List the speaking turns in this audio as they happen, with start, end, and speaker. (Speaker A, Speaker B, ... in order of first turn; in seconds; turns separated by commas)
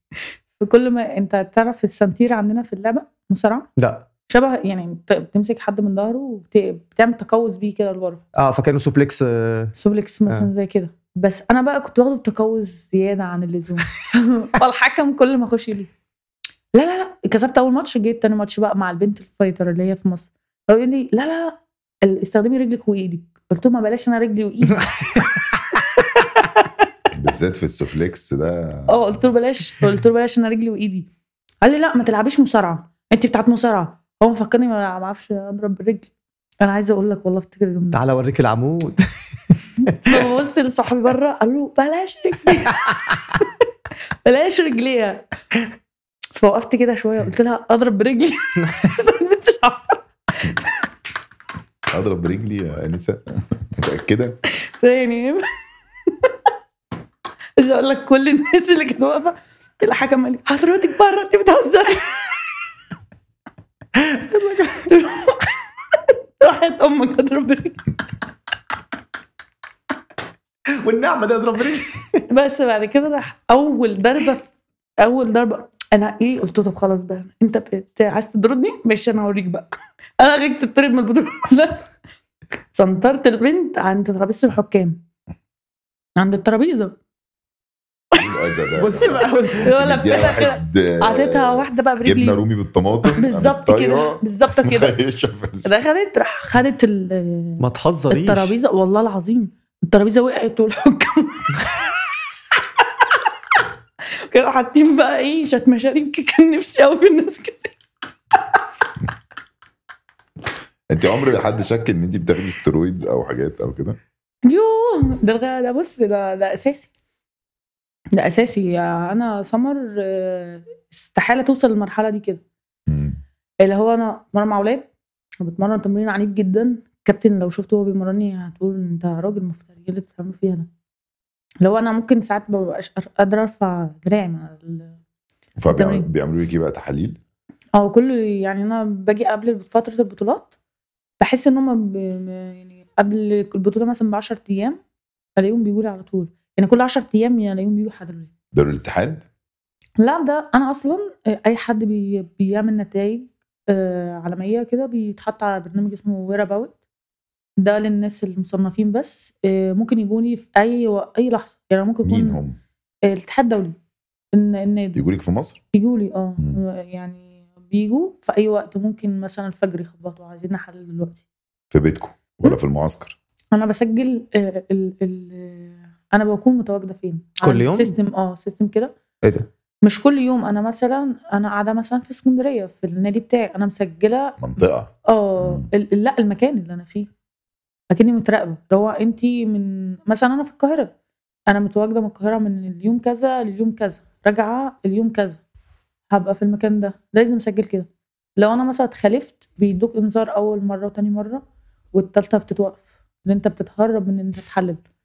Speaker A: 0.6-3.7, Speaker B: 3.8-4.0, Speaker A: 4.3-8.2, Speaker B: 8.3-9.7, Speaker A: 9.8-15.9, Speaker A: 16.7-25.3, Speaker B: 24.9-25.8, Speaker A: 26.4-26.7, Speaker C: 27.1-29.0, Speaker A: 28.9-31.1, Speaker A: 31.6-38.0, Speaker B: 37.9-40.2, Speaker A: 40.0-43.5, Speaker B: 42.7-43.2, Speaker A: 44.2-45.2, Speaker A: 46.4-50.7, Speaker B: 48.6-48.9, Speaker C: 51.9-54.4, Speaker A: 54.6-55.4, Speaker A: 57.6-62.3, Speaker B: 64.1-64.9, Speaker A: 64.6-67.8, Speaker B: 70.8-72.2, Speaker A: 72.3-81.9, Speaker A: 82.7-85.0, Speaker A: 86.2-87.0, Speaker C: 88.1-95.7, Speaker B: 88.8-89.8, Speaker A: 89.0-92.4, Speaker A: 93.1-95.0, Speaker A: 95.6-101.9, Speaker B: 97.6-98.5, Speaker A: 104.2-107.7, Speaker C: 110.9-114.0, Speaker A: 114.5-116.9, Speaker A: 118.1-122.4, Speaker C: 122.9-123.2, Speaker A: 123.6-124.9, Speaker A: 125.4-130.7, Speaker A: 131.6-134.9, Speaker C: 135.6-137.2, Speaker A: 135.7-136.1, Speaker A: 137.7-140.5, Speaker A: 141.2-144.8, Speaker A: 145.4-148.3, Speaker C: 148.5-149.2, Speaker A: 150.0-156.8, Speaker A: 157.6-162.4, Speaker C: 162.0-162.6, Speaker A: 163.1-163.8, Speaker A: 164.3-165.0, Speaker C: 164.9-165.6, Speaker A: 165.7-171.2, Speaker C: 171.7-173.2, Speaker A: 173.5-178.9, Speaker B: 177.4-177.9, Speaker A: 179.8-184.4, Speaker C: 184.4-185.7, Speaker A: 185.1-187.1, Speaker A: 187.9-190.9, Speaker A: 191.5-195.4, Speaker A: 196.1-201.4, Speaker A: 201.9-204.8